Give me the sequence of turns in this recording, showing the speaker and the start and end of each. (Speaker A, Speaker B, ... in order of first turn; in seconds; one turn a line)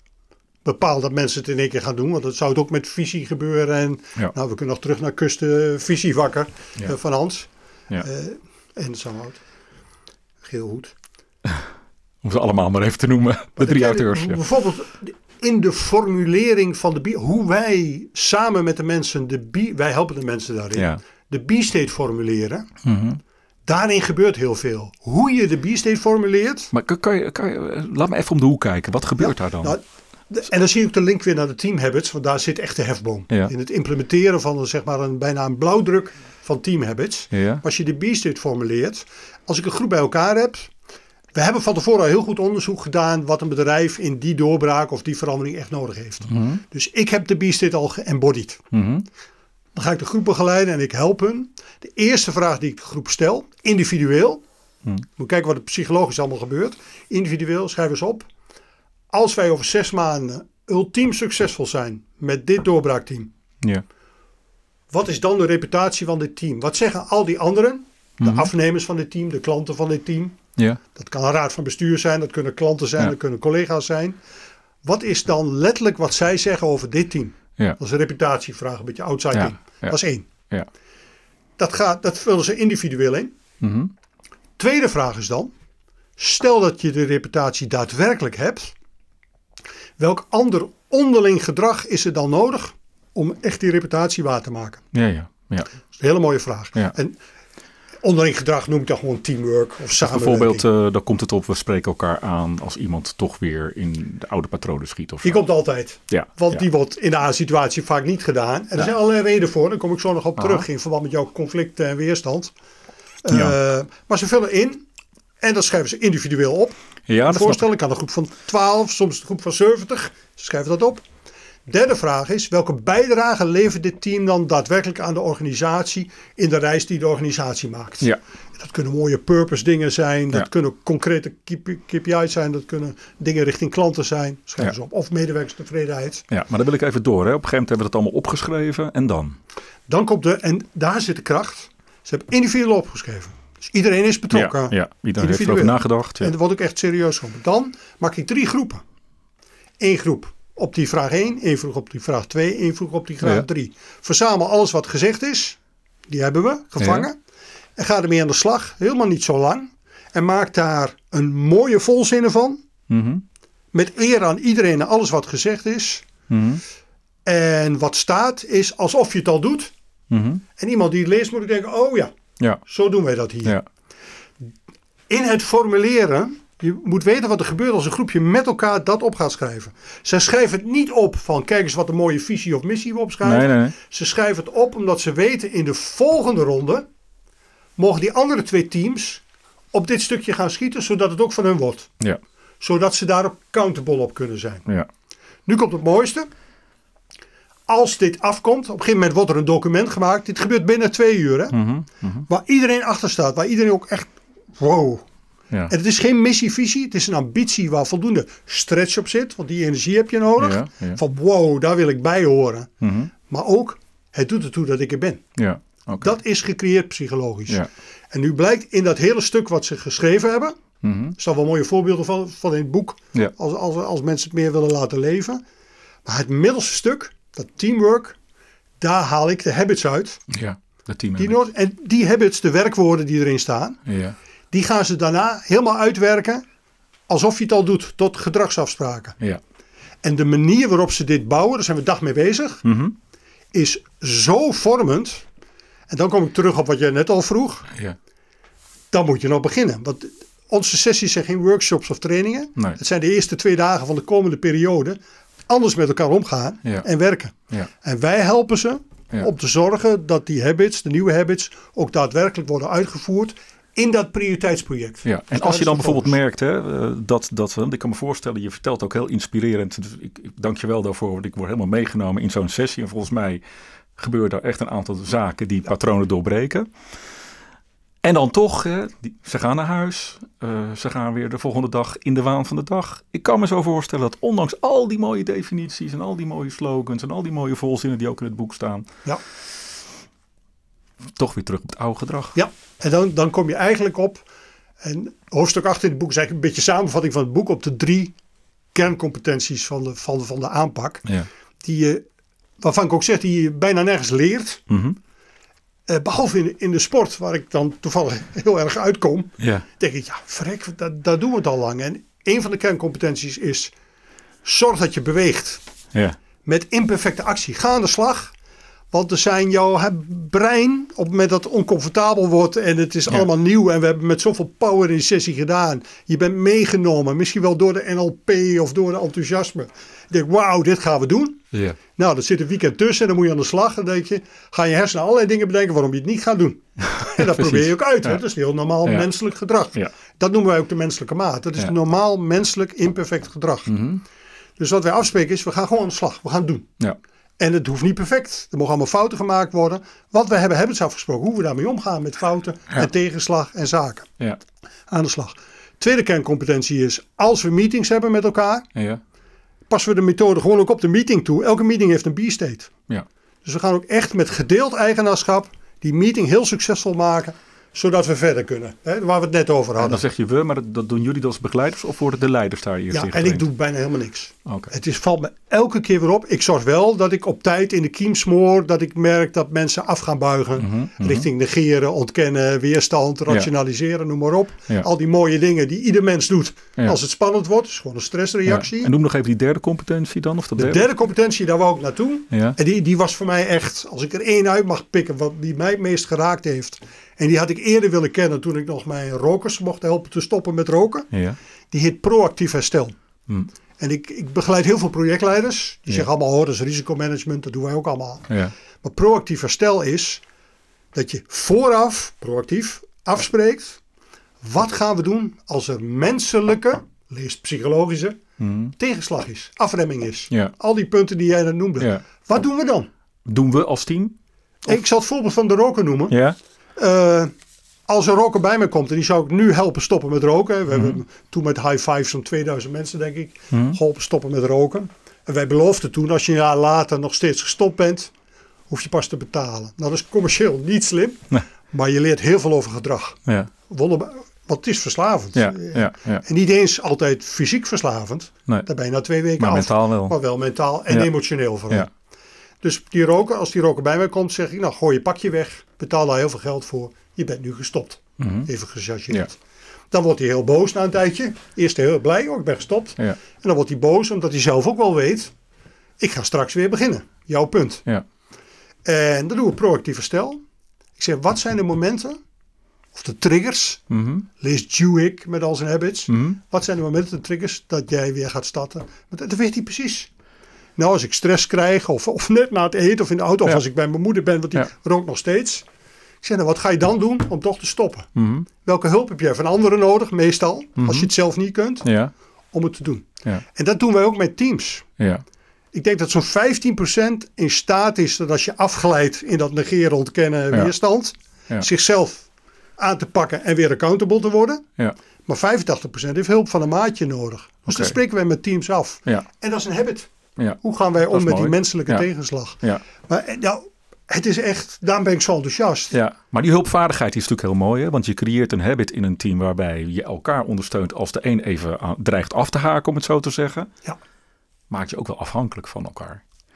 Speaker A: 0.7-9.4
Speaker A: 10.4-10.9
Speaker B: 12.2-14.4
Speaker A: 13.6-22.7
Speaker B: 20.8-21.0
Speaker B: 22.8-23.2
Speaker A: 23.7-26.7
Speaker B: 26.7-29.8
Speaker A: 29.2-40.7
Speaker B: 37.3-37.6
Speaker A: 41.4-48.6
Speaker B: 46.3-46.6
Speaker B: 48.7-49.1
Speaker A: 49.8-54.4
Speaker A: 55.2-58.3
Speaker A: 59.1-63.3
Speaker A: 64.9-70.4
Speaker B: 68.2-68.5
Speaker A: 70.9-74.2
Speaker A: 74.8-80.3
Speaker B: 79.3-80.0
Speaker A: 81.6-83.3
Speaker B: 83.6-83.9
Speaker A: 84.6-85.5
Speaker A: 86.2-88.7
Speaker A: 90.0-94.8
Speaker B: 94.9-95.7
Speaker A: 96.0-97.2
Speaker A: 98.0-100.7
Speaker B: 100.0-105.4
Speaker A: 105.2-112.5
Speaker B: 106.1-106.6
Speaker B: 110.4-110.7
Speaker A: 113.2-114.9
Speaker B: 113.3-113.6
Speaker A: 115.4-121.0
Speaker B: 117.1-117.7
Speaker A: 121.7-136.3
Speaker B: 136.3-139.4
Speaker A: 139.9-148.8
Speaker B: 144.3-146.3
Speaker A: 149.8-155.6
Speaker A: 156.1-157.2
Speaker B: 156.8-157.1
Speaker A: 157.8-162.6
Speaker B: 162.9-163.2
Speaker A: 163.7-166.1
Speaker B: 166.3-166.6
Speaker A: 167.3-169.7
Speaker B: 170.1-170.4
Speaker A: 170.6-172.1
Speaker A: 172.7-173.6
Speaker A: 175.1-186.9
Speaker B: 183.2-183.8
Speaker A: 187.8-191.9
Speaker A: 192.6-194.7
Speaker A: 195.5-196.3
Speaker A: 197.7-201.6
Speaker B: 201.5-202.2
Speaker A: 202.3-205.0
Speaker A: 205.7-212.7
Speaker B: 210.4-211.0
Speaker B: 212.8-213.1
Speaker A: 213.3-215.2
Speaker B: 215.4-216.2
Speaker A: 216.0-220.6
Speaker B: 220.8-221.2
Speaker A: 221.2-225.4
Speaker A: 226.1-228.2
Speaker A: 228.8-230.2
Speaker B: 230.3-231.4
Speaker A: 231.2-233.8
Speaker B: 233.9-234.2
Speaker A: 234.5-236.4
Speaker A: 237.1-239.2
Speaker A: 240.0-242.6
Speaker B: 242.6-242.9
Speaker A: 243.5-245.3
Speaker A: 245.9-247.7
Speaker A: 248.9-266.2
Speaker B: 265.0-273.4
Speaker B: 274.0-276.7
Speaker B: 278.0-288.9
Speaker B: 291.2-292.4
Speaker A: 292.4-294.2
Speaker A: 294.8-298.1
Speaker A: 298.8-301.1
Speaker A: 301.6-302.1
Speaker A: 302.6-304.6
Speaker B: 304.7-305.0
Speaker A: 305.9-313.7
Speaker B: 309.4-309.7
Speaker A: 314.4-315.6
Speaker A: 316.4-318.3
Speaker A: 318.9-331.4
Speaker B: 331.5-331.8
Speaker A: 332.0-343.7
Speaker B: 336.8-338.2
Speaker B: 343.7-344.0
Speaker A: 344.6-346.7
Speaker A: 347.4-354.1
Speaker A: 354.9-358.7
Speaker B: 358.8-359.0
Speaker A: 359.7-362.7
Speaker A: 363.4-370.0
Speaker B: 369.8-373.4
Speaker A: 372.9-388.9
Speaker B: 374.5-374.7
Speaker B: 380.6-381.3
Speaker B: 388.5-390.9
Speaker A: 390.6-401.1
Speaker B: 392.3-392.6
Speaker B: 401.1-401.4
Speaker A: 401.7-402.9
Speaker A: 403.8-410.2
Speaker A: 410.9-413.8
Speaker A: 414.4-418.2
Speaker B: 418.4-418.7
Speaker A: 418.8-422.9
Speaker B: 421.8-422.0
Speaker B: 423.3-424.2
Speaker A: 424.7-426.2
Speaker B: 426.1-426.4
Speaker A: 426.8-427.3
Speaker A: 427.9-438.1
Speaker B: 430.7-431.0
Speaker B: 433.5-433.8
Speaker A: 438.7-451.9
Speaker B: 445.4-446.2
Speaker B: 449.4-450.2
Speaker A: 452.6-459.4
Speaker B: 458.2-458.5
Speaker A: 459.9-465.3
Speaker A: 466.0-467.8
Speaker A: 468.9-470.4
Speaker A: 471.0-472.2
Speaker A: 472.9-473.8
Speaker B: 473.9-474.3
Speaker A: 474.4-480.1
Speaker B: 476.1-476.4
Speaker A: 480.8-485.7
Speaker A: 486.2-488.1
Speaker B: 488.2-488.5
Speaker A: 488.6-491.9
Speaker B: 490.8-491.1
Speaker B: 491.8-492.1
Speaker A: 492.5-494.9
Speaker B: 495.0-495.2
Speaker A: 495.7-502.3
Speaker A: 502.8-504.6
Speaker A: 505.3-515.9
Speaker B: 507.7-508.0
Speaker B: 511.1-512.1
Speaker B: 515.9-523.7
Speaker B: 524.7-526.2